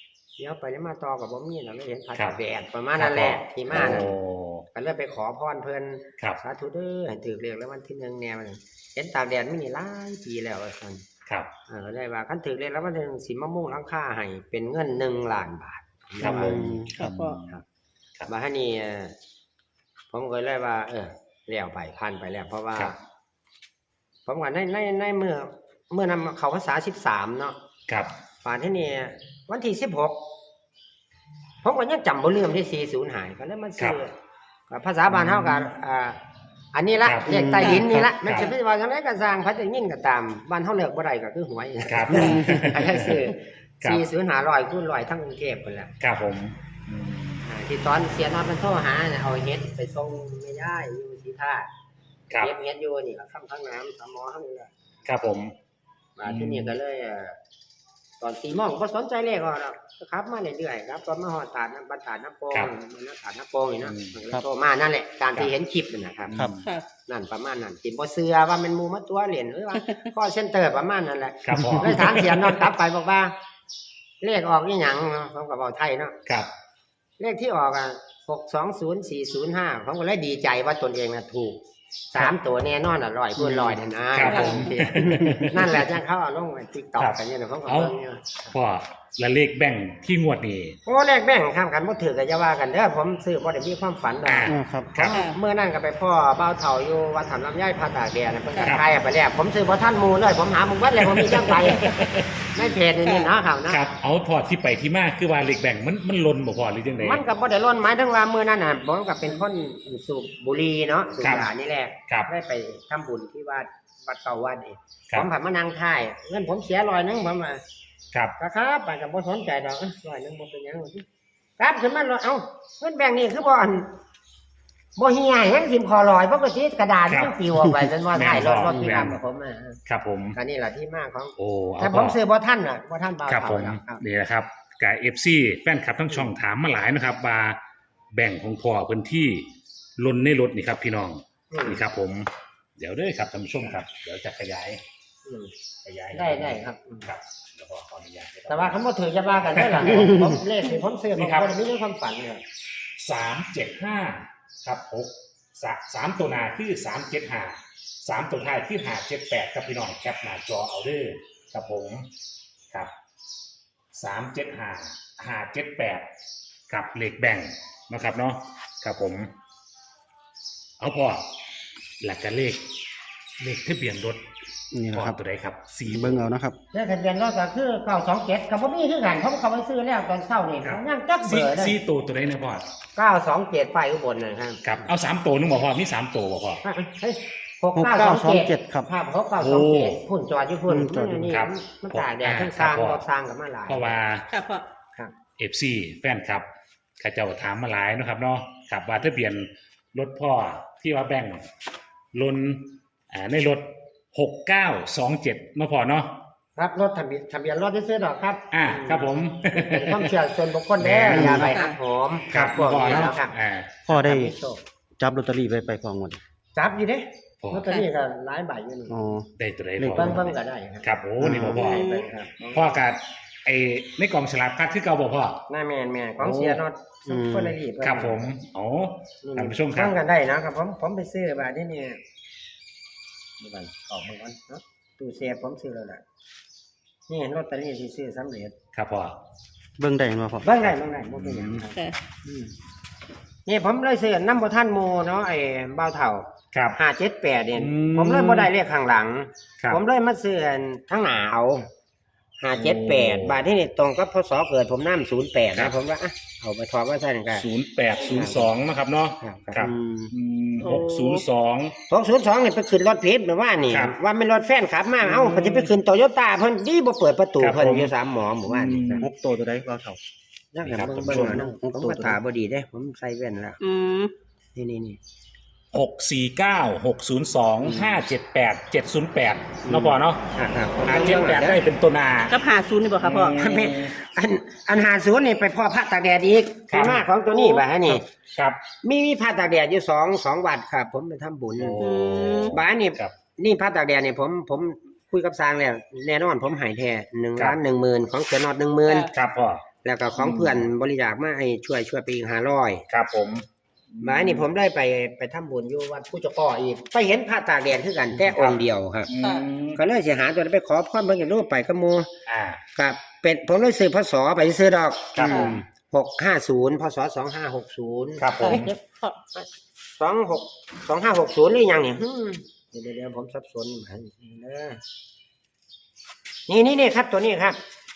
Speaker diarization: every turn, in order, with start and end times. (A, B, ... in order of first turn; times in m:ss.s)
0:00.4-0:04.1 A
0:03.0-0:04.6 B
0:04.7-0:11.0 A
0:11.7-0:16.8 A
0:16.2-0:17.6 B
0:16.2-0:17.0 C
0:17.0-0:17.4 D
0:18.2-0:19.1 A
0:20.1-0:23.0 A
0:24.2-0:27.6 A
0:28.4-0:30.2 A
0:31.6-0:34.1 A
0:34.7-0:36.2 A
0:35.1-0:35.7 B
0:36.7-0:45.9 A
0:37.0-0:37.4 B
0:37.3-0:38.1 C
0:37.6-0:38.0 D
0:38.0-0:38.4 B
0:41.9-0:43.2 B
0:42.2-0:42.6 D
0:46.0-0:47.4 B
0:47.4-0:51.7 A
0:52.4-0:54.7 A
0:55.0-0:55.5 B
0:56.2-0:57.4 A
0:56.2-0:56.7 B
0:58.2-1:06.4 A
1:03.8-1:04.1 B
1:06.2-1:06.7 B
1:07.1-1:13.3 A
1:11.4-1:12.6 B
1:14.2-1:16.2 A
1:17.2-1:21.6 A
1:22.1-1:28.5 A
1:24.1-1:25.7 B
1:24.3-1:24.7 D
1:27.0-1:27.9 B
1:28.5-1:30.8 B
1:30.8-1:42.0 A
1:34.2-1:35.2 B
1:34.5-1:34.9 C
1:35.1-1:35.4 D
1:41.0-1:42.7 B
1:42.5-1:43.8 A
1:43.7-1:47.2 B
1:47.0-1:57.6 A
1:51.2-1:51.5 B
1:58.4-2:01.0 A
2:01.6-2:03.9 A
2:05.0-2:09.8 A
2:07.1-2:09.2 B
2:09.9-2:10.4 B
2:10.3-2:14.0 A
2:11.4-2:12.2 B
2:13.3-2:17.6 B
2:18.1-2:24.8 B
2:21.5-2:21.8 A
2:25.2-2:25.5 A
2:25.8-2:28.8 B
2:26.1-2:27.1 A
2:28.5-2:32.4 A
2:29.5-2:30.2 B
2:31.2-2:31.5 B
2:33.0-2:42.1 B
2:43.9-2:46.1 B
2:46.7-2:49.3 B
2:50.8-2:51.2 B
2:52.0-2:52.6 B
2:53.4-2:54.2 B
2:54.7-2:55.2 C
2:54.9-2:56.2 B
2:55.9-2:56.6 C
2:56.7-3:01.8 A
3:00.6-3:02.6 B
3:03.0-3:04.8 A
3:04.6-3:06.6 B
3:06.6-3:14.0 A
3:07.8-3:08.9 C
3:09.4-3:10.0 B
3:10.7-3:11.3 C
3:11.2-3:13.0 B
3:13.7-3:14.2 B
3:14.3-3:14.6 D
3:15.4-3:16.5 B
3:17.0-3:21.4 B
3:22.1-3:26.1 B
3:26.6-3:33.3 A
3:28.5-3:30.1 B
3:30.8-3:31.4 B
3:31.0-3:31.5 C
3:31.3-3:31.8 D
3:32.3-3:33.7 B
3:32.8-3:33.1 D
3:33.8-3:34.4 C
3:33.9-3:34.6 A
3:35.0-3:36.2 C
3:36.6-3:39.0 A
3:37.4-3:37.7 B
3:38.9-3:40.1 C
3:39.4-3:40.3 B
3:39.9-3:42.6 A
3:40.8-3:41.8 B
3:41.2-3:41.6 C
3:41.6-3:42.0 D
3:42.5-3:45.4 B
3:45.5-3:48.2 A
3:46.2-3:47.6 C
3:47.8-3:49.9 B
3:49.2-3:52.0 A
3:53.4-3:56.0 A
3:57.1-3:58.6 A
3:58.7-3:59.2 B
3:59.8-4:00.5 C
4:00.4-4:02.5 A
4:00.6-4:01.6 B
4:03.4-4:11.7 A
4:06.5-4:06.8 B
4:07.6-4:08.5 B
4:12.4-4:17.4 A
4:12.6-4:13.4 B
4:17.3-4:21.7 B
4:18.0-4:18.5 A
4:19.2-4:19.6 A
4:19.6-4:20.1 C
4:20.6-4:21.2 D
4:21.9-4:29.0 A
4:25.0-4:25.7 B
4:27.4-4:27.9 B
4:28.5-4:29.0 B
4:29.0-4:30.0 C
4:30.5-4:33.6 A
4:30.6-4:31.4 B
4:31.0-4:32.2 C
4:33.6-4:34.1 D
4:34.5-4:35.0 A
4:35.7-4:40.2 B
4:37.6-4:38.0 A
4:39.6-4:41.6 A
4:40.8-4:42.4 B
4:42.3-4:43.5 D
4:43.0-4:43.9 B
4:43.3-4:48.0 A
4:46.7-4:47.0 B
4:47.8-4:48.6 B
4:48.8-4:51.9 A
4:51.6-4:53.1 B
4:51.8-4:52.5 D
4:52.5-4:59.1 A
4:59.1-4:59.6 B
4:59.8-5:02.8 A
5:00.2-5:00.6 B
5:02.9-5:04.5 B
5:04.0-5:09.1 A
5:08.2-5:09.8 B
5:09.2-5:09.4 D
5:09.7-5:12.1 A
5:12.2-5:12.6 B
5:12.7-5:18.8 A
5:15.1-5:15.6 B
5:15.2-5:15.6 D
5:18.2-5:18.7 B
5:18.4-5:19.2 D
5:20.0-5:24.8 A
5:26.5-5:27.6 A